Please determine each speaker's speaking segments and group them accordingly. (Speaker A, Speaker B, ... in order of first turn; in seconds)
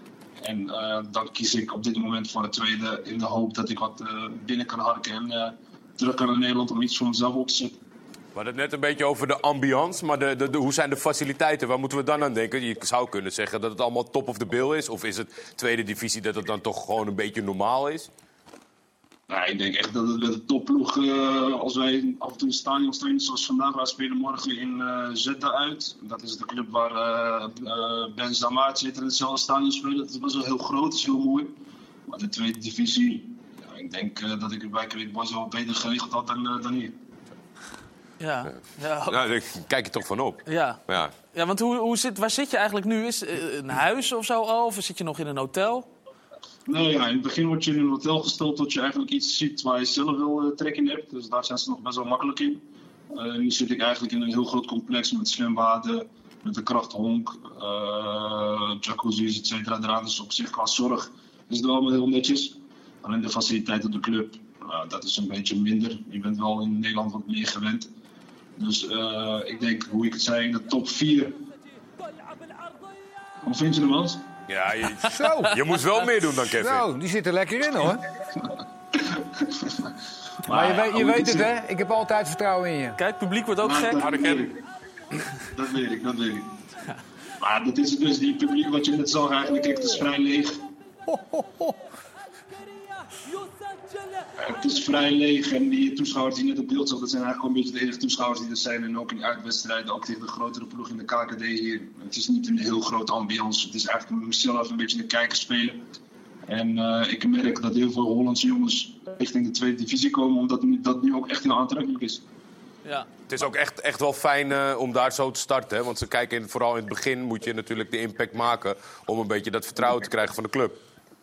Speaker A: 0.4-7.7, 19.3-31.5, 32.1-36.9, 46.7-67.9, 68.6-71.3, 73.4-74.2, 79.0-79.9, 80.4-81.5, 83.6-84.6, 85.5-86.5, 87.4-90.6, 94.4-105.8, 106.5-112.2
Speaker B: 8.3-18.1, 39.0-41.1, 74.5-76.8, 113.3-120.8
Speaker C: 38.2-39.2, 40.5-45.9, 83.0-84.4
Speaker D: 75.0-75.5, 76.5-78.0, 80.5-83.0, 91.1-91.7